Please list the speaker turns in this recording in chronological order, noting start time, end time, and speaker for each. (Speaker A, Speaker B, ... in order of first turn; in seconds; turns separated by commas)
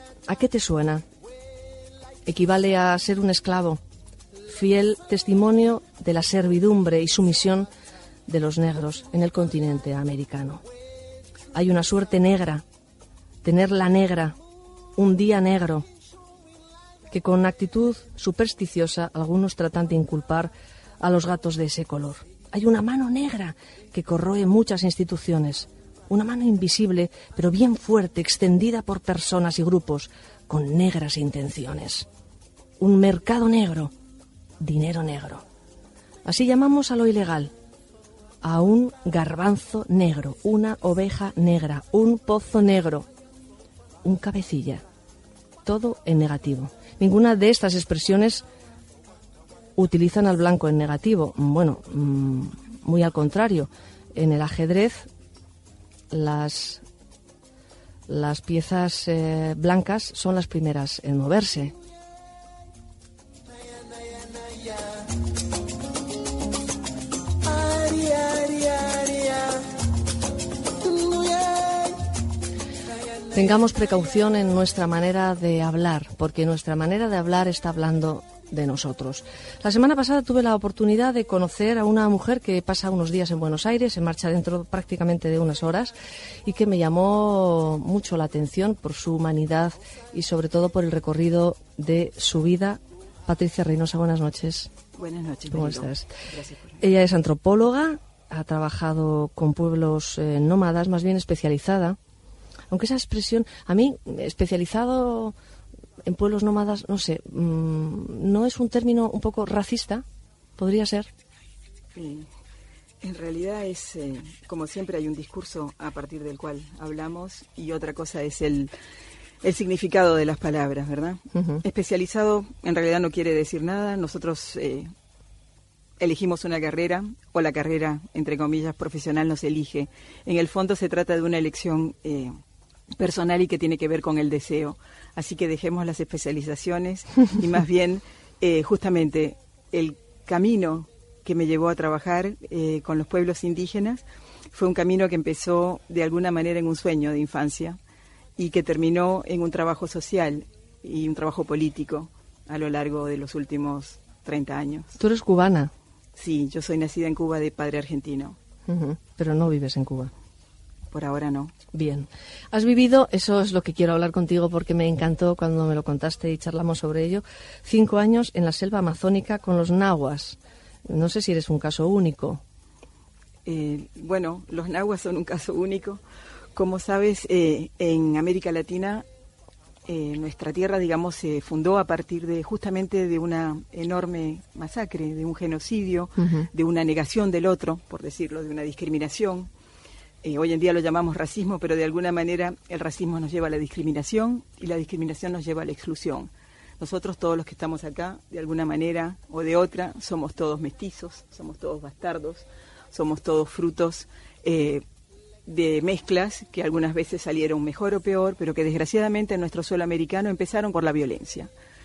Speaker A: 0.3-1.0, Speaker A: 2.2-3.8, Speaker A: 4.5-7.7, Speaker A: 8.3-10.6, Speaker A: 11.5-12.6, Speaker A: 13.4-14.4, Speaker A: 15.0-15.8, Speaker A: 17.1-32.1, Speaker A: 32.8-33.9, Speaker A: 34.6-35.4, Speaker A: 36.2-37.5, Speaker A: 38.4-43.1, Speaker A: 44.0-44.8, Speaker A: 45.6-48.4, Speaker A: 49.8-55.1, Speaker A: 56.1-56.8, Speaker A: 58.1-61.7, Speaker A: 73.3-94.7, Speaker B: 95.0-96.8, Speaker A: 95.5-96.1, Speaker A: 96.8-102.0, Speaker A: 102.7-105.3, Speaker A: 106.0-110.0, Speaker A: 110.6-111.1, Speaker B: 111.9-112.3, Speaker B: 113.0-118.7, Speaker B: 119.4-124.9, Speaker A: 121.3-121.6, Speaker B: 126.0-132.3, Speaker B: 133.0-147.8, Speaker B: 148.4-154.9, Speaker A: 155.0-155.7, Speaker B: 156.2-158.4, Speaker A: 158.7-160.1, Speaker B: 160.9-161.5, Speaker A: 161.7-172.4, Speaker B: 173.4-176.0, Speaker B: 176.6-179.0, Speaker B: 179.9-189.5, Speaker A: 186.2-186.5, Speaker B: 190.2-204.8, Speaker B: 205.4-211.5